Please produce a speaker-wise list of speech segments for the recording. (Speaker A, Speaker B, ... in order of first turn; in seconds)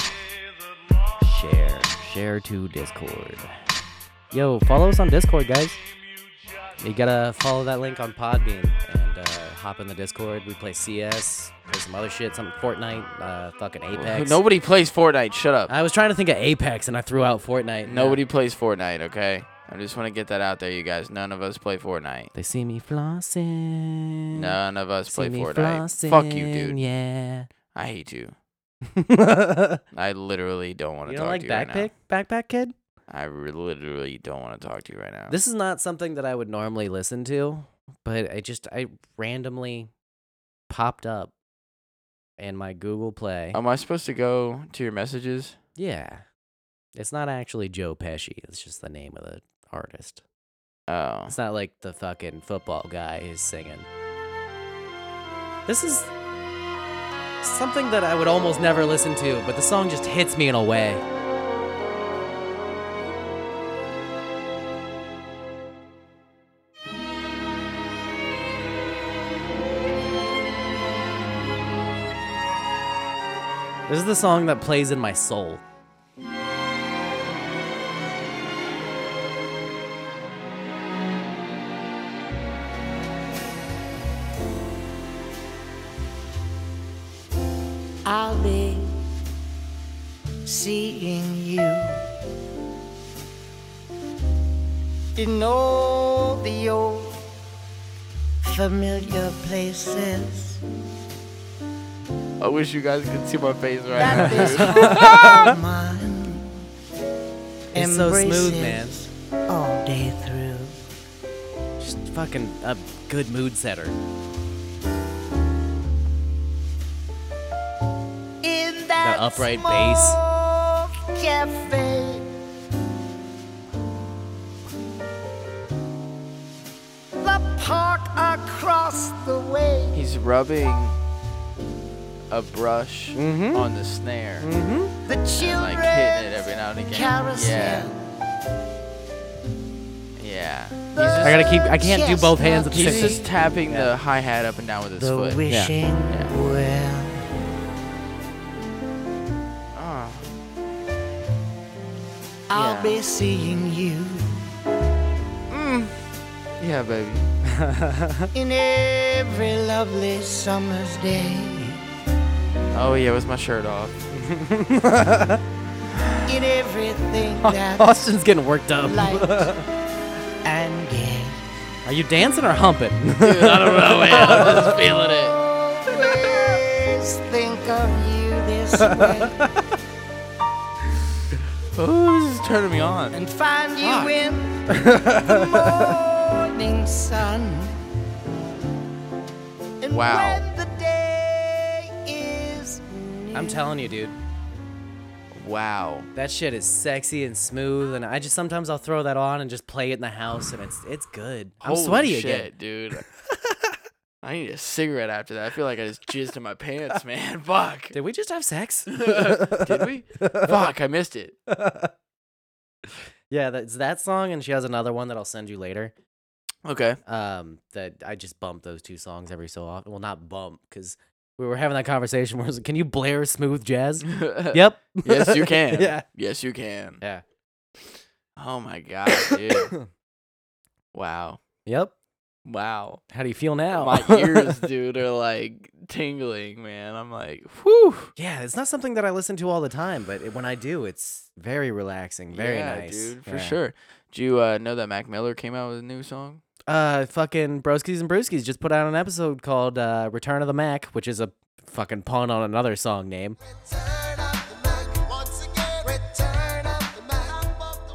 Speaker A: 1.2-3.5, 4.3-5.8, 6.8-14.4, 15.7-18.2, 22.3-24.6, 25.1-27.5, 28.9-29.8, 31.1-32.7, 35.3-39.9, 40.7-41.3, 42.4-43.6, 45.8-46.2, 46.9-50.2, 51.3-53.9, 55.7-56.1, 57.4-61.0, 73.9-75.6, 104.2-105.5, 107.7-109.0, 111.8-114.0, 119.0-120.2, 133.1-133.7, 134.4-134.9, 141.2-143.9, 145.5-145.7, 157.4-158.3, 164.1-165.4, 167.4-169.6, 171.8-174.8, 178.8-179.5, 184.7-185.9, 193.3-194.2, 196.1-202.5, 207.9-210.6, 211.5-211.9, 213.3-215.9, 217.1-226.0, 229.1-229.9, 231.7-231.9, 233.1-234.6, 238.2-243.6, 246.7-253.4
Speaker B: 13.9-15.7, 17.8-22.3, 24.3-26.8, 27.7-28.3, 29.9-31.9, 33.1-35.4, 43.5-45.6, 50.9-51.3, 102.4-105.4, 129.9-130.9, 132.3-134.5, 135.3-137.9, 140.2-141.4, 142.7-145.4, 146.1-146.3, 149.7-150.3, 152.5-153.0, 155.5-156.0, 156.6-157.3, 162.7-164.1, 165.9-166.4, 173.2-175.4, 181.7-183.2, 183.8-184.2, 189.9-190.4, 195.3-196.1, 201.6-203.1, 204.2-207.9, 208.9-211.3, 216.6-217.0, 224.0-227.0, 228.3-229.7, 230.9-231.4, 232.4-233.0, 233.7-238.1, 242.3-246.4
Speaker C: 88.0-88.9, 90.5-92.0, 95.2-97.2, 98.4-100.6, 103.9-106.5, 107.7-110.8, 118.4-122.2, 127.2-130.0, 135.1-137.9, 140.9-143.3, 145.0-147.2, 152.5-154.4, 158.3-161.8, 166.2-168.1, 168.8-169.5, 170.4-171.4, 175.1-179.4, 183.1-187.8, 189.8-193.7, 253.6-257.8